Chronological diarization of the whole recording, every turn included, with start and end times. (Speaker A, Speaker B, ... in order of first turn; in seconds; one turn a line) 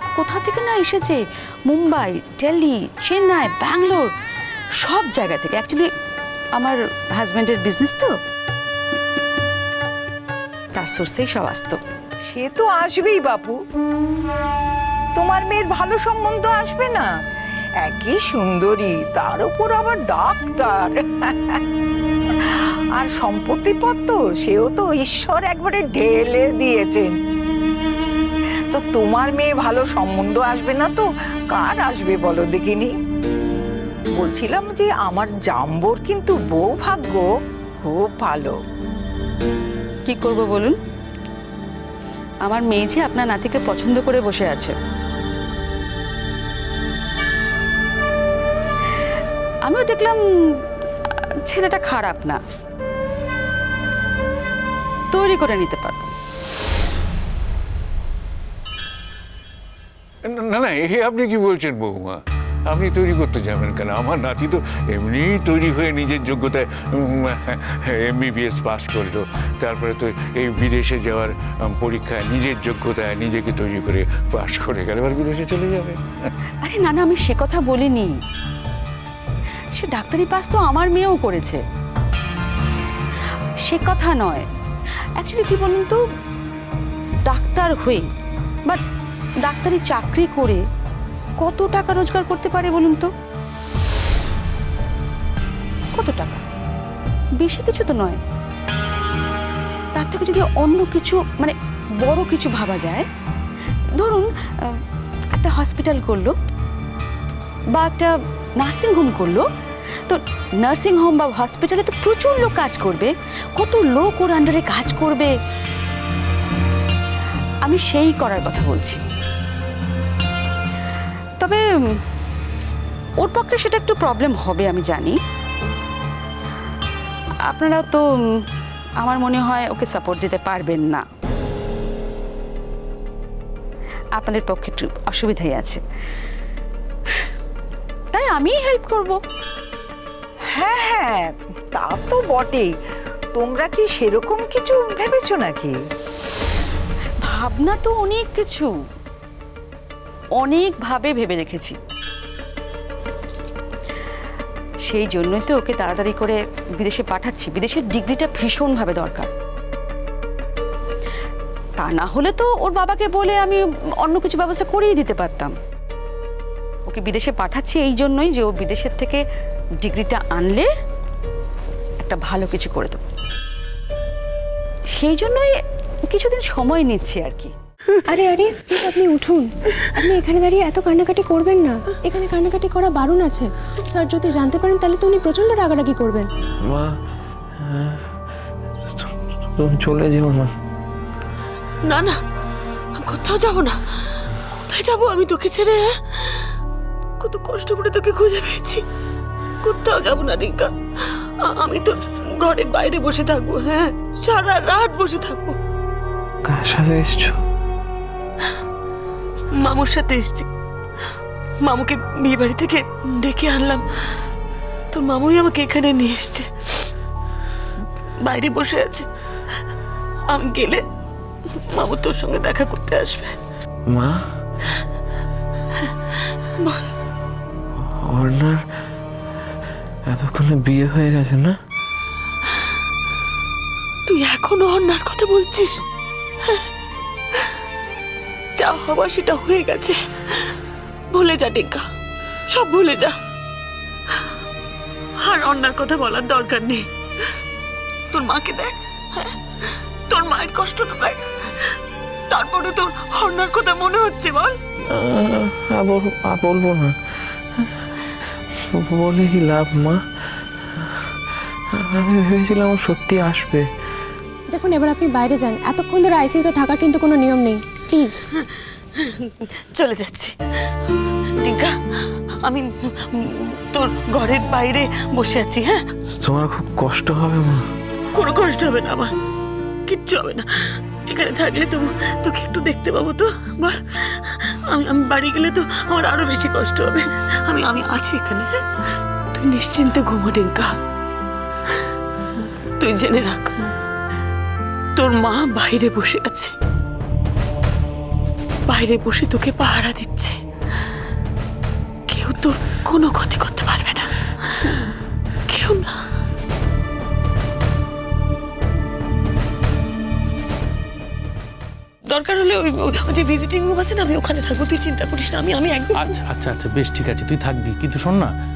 Speaker A: 0.1-4.1
Speaker A: 4.8-5.9
Speaker A: 6.6-8.2
Speaker A: 10.8-11.8
Speaker B: 12.3-13.6
Speaker B: 15.1-17.1
Speaker B: 17.8-21.6
Speaker B: 23.0-27.1
Speaker B: 28.7-32.9
Speaker B: 34.2-37.3
Speaker B: 37.8-38.5
Speaker A: 40.1-40.8
Speaker A: 42.4-44.7
Speaker A: 49.6-50.6
Speaker A: 51.5-52.4
Speaker A: 55.1-56.1
Speaker C: 60.2-76.0
Speaker A: 76.6-78.1
Speaker A: 79.7-81.6
Speaker A: 83.7-84.5
Speaker A: 85.2-86.0
Speaker A: 87.2-88.1
Speaker A: 89.4-90.6
Speaker A: 91.4-93.1
Speaker A: 95.9-96.4
Speaker A: 97.4-98.2
Speaker A: 99.9-103.1
Speaker A: 104.0-104.8
Speaker A: 105.3-106.3
Speaker A: 107.7-109.5
Speaker A: 110.0-115.3
Speaker A: 117.6-119.0
Speaker A: 121.4-122.0
Speaker A: 123.2-125.2
Speaker A: 127.5-128.4
Speaker A: 129.0-131.0
Speaker A: 134.2-135.8
Speaker A: 138.1-139.2
Speaker B: 140.6-142.7
Speaker B: 143.3-145.8
Speaker A: 147.2-148.7
Speaker A: 150.4-151.8
Speaker A: 154.9-159.3
Speaker A: 161.8-165.5
Speaker A: 166.9-169.2
Speaker A: 169.8-170.7
Speaker A: 172.0-173.0
Speaker A: 175.0-177.5
Speaker D: 178.1-186.3
Speaker E: 186.7-187.0
Speaker E: 187.6-188.1
Speaker E: 188.8-190.5
Speaker F: 191.8-192.2
Speaker F: 192.9-193.8
Speaker F: 194.5-196.5
Speaker F: 197.2-198.8
Speaker F: 199.6-200.7
Speaker F: 201.4-205.6
Speaker E: 206.4-207.4
Speaker F: 209.5-210.5
Speaker F: 211.6-213.8
Speaker F: 214.9-216.9
Speaker F: 218.2-219.1
Speaker F: 220.3-220.8
Speaker F: 221.7-223.3
Speaker E: 223.8-224.3
Speaker F: 226.6-226.9
Speaker E: 227.8-228.7
Speaker E: 230.1-231.6
Speaker F: 234.1-235.8
Speaker F: 238.6-240.0
Speaker F: 241.1-241.8
Speaker F: 242.5-243.1
Speaker F: 245.2-246.8
Speaker F: 248.1-249.3
Speaker F: 250.1-251.3
Speaker F: 252.3-254.5
Speaker E: 254.9-257.7
Speaker E: 258.7-260.0
Speaker E: 261.7-263.7
Speaker D: 264.5-268.2
Speaker F: 269.0-270.3
Speaker F: 271.4-271.7
Speaker F: 272.4-275.8
Speaker E: 276.2-277.7
Speaker F: 278.1-279.1
Speaker F: 279.9-280.4
Speaker F: 281.1-288.5
Speaker F: 289.3-290.7
Speaker F: 292.8-293.7
Speaker F: 294.9-296.5
Speaker F: 298.7-300.4
Speaker F: 302.1-304.1
Speaker F: 305.5-305.9
Speaker F: 312.1-316.2
Speaker G: 316.0-318.3